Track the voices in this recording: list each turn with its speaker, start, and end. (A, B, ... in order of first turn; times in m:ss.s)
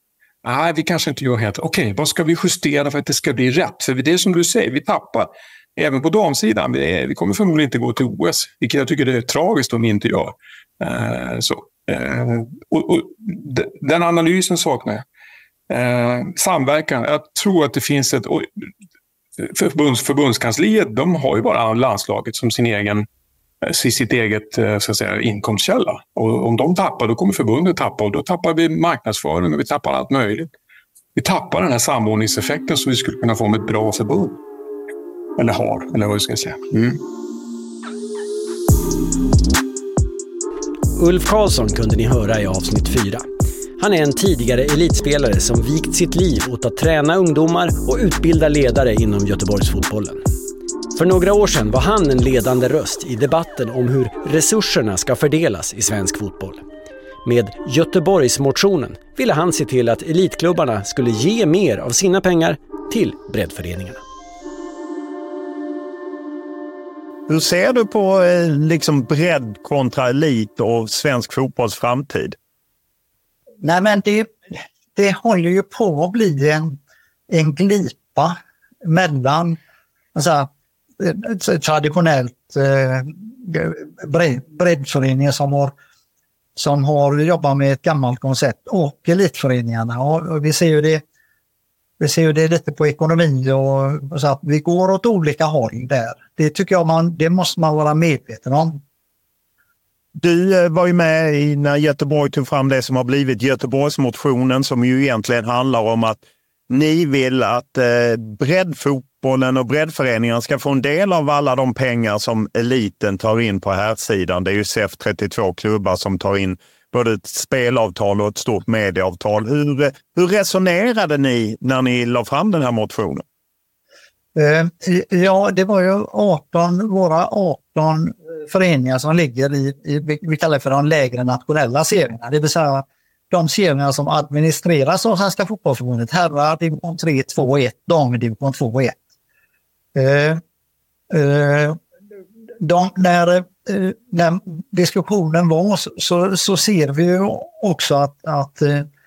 0:00.4-0:15.0 A
0:15.7-0:18.5 A
0:19.4-0:23.1 A
0:23.6-0:30.5 A
0:31.1-0:34.4 A
0:35.4-0:37.0 A
0:41.0-0:43.3 B
0:43.8-0:50.2 B
0:50.9-0:56.6 B
0:57.2-1:04.0 B
1:07.3-1:12.4 C
1:13.6-1:14.3 D
1:14.9-1:16.8 D
1:17.3-1:19.6 D
1:20.1-1:25.7 D
1:26.6-1:31.0 D
1:32.0-1:38.8 D
1:40.2-2:03.2 C
2:04.3-2:19.0 D
2:19.9-2:20.4 D
2:21.1-2:21.8 D
2:22.6-2:28.8 D